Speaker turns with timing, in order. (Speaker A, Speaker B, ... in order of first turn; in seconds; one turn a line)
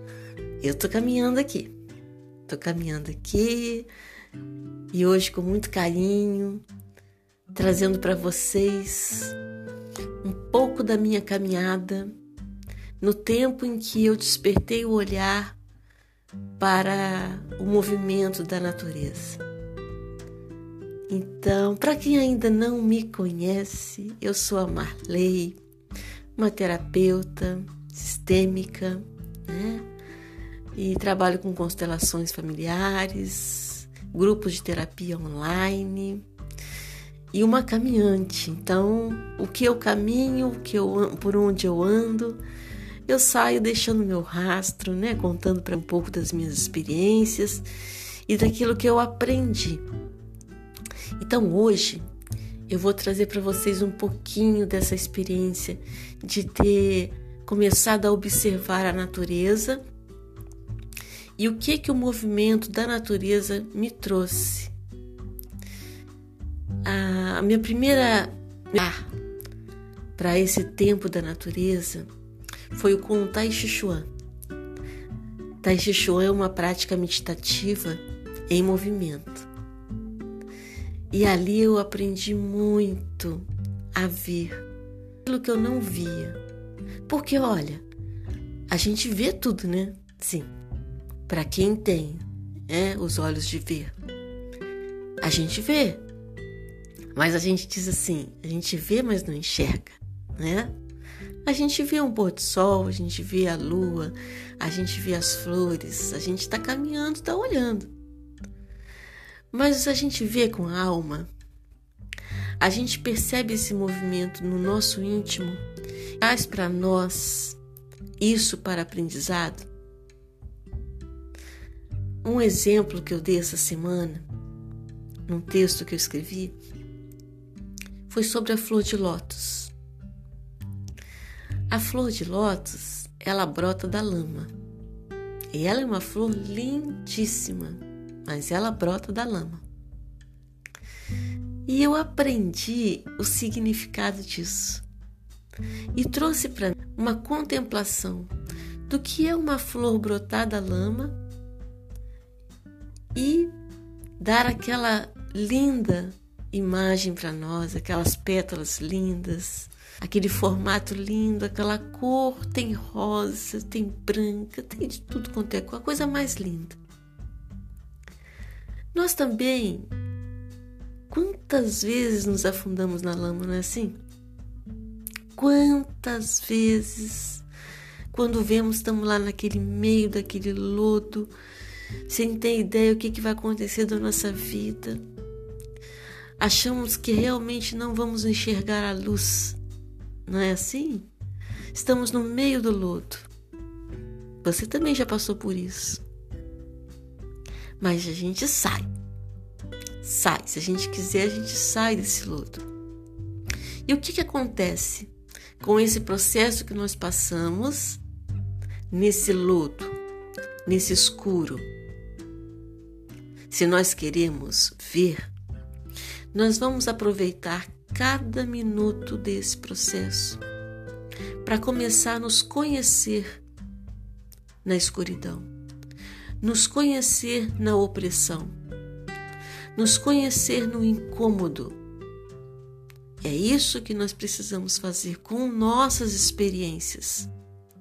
Speaker A: 0.6-1.7
Speaker A: 2.5-3.9
Speaker A: 4.9-6.7
Speaker A: 7.5-9.4
Speaker A: 10.2-12.1
Speaker A: 13.0-15.6
Speaker A: 16.6-19.4
Speaker A: 21.1-25.6
Speaker A: 26.4-29.9
Speaker A: 30.8-36.2
Speaker A: 37.3-42.4
Speaker A: 43.1-47.7
Speaker A: 48.3-49.8
Speaker A: 51.2-52.1
Speaker A: 52.7-59.8
Speaker A: 61.4-64.7
Speaker A: 66.8-69.1
Speaker A: 70.2-72.1
Speaker A: 72.7-74.1
Speaker A: 75.6-79.5
Speaker A: 81.1-84.7
Speaker A: 85.2-86.4
Speaker A: 87.1-87.8
Speaker A: 88.7-90.5
Speaker A: 91.3-94.0
Speaker A: 95.2-96.0
Speaker A: 97.1-100.8
Speaker A: 101.5-107.9
Speaker A: 109.5-111.3
Speaker A: 112.6-115.6
Speaker A: 116.2-117.6
Speaker A: 118.2-119.7
Speaker A: 122.2-124.3
Speaker A: 125.3-126.5
Speaker A: 128.1-129.7
Speaker A: 131.7-134.5
Speaker A: 135.5-139.6
Speaker A: 141.7-144.8
Speaker A: 145.9-148.3
Speaker A: 148.9-151.2
Speaker A: 153.2-153.5
Speaker A: 154.2-166.8
Speaker A: 168.9-169.9
Speaker A: 171.1-174.0
Speaker A: 175.3-177.4
Speaker A: 178.1-181.3
Speaker A: 182.1-185.0
Speaker A: 186.4-189.6
Speaker A: 190.3-191.1
Speaker A: 191.7-193.3
Speaker A: 194.4-196.0
Speaker A: 197.8-198.9
Speaker A: 200.0-202.7
Speaker A: 203.9-208.0
Speaker A: 208.9-210.0
Speaker A: 210.7-211.7
Speaker A: 213.5-215.3
Speaker A: 216.3-220.4
Speaker A: 221.4-223.4
Speaker A: 224.6-225.5
Speaker A: 226.4-228.6
Speaker A: 229.7-231.8
Speaker A: 233.2-237.3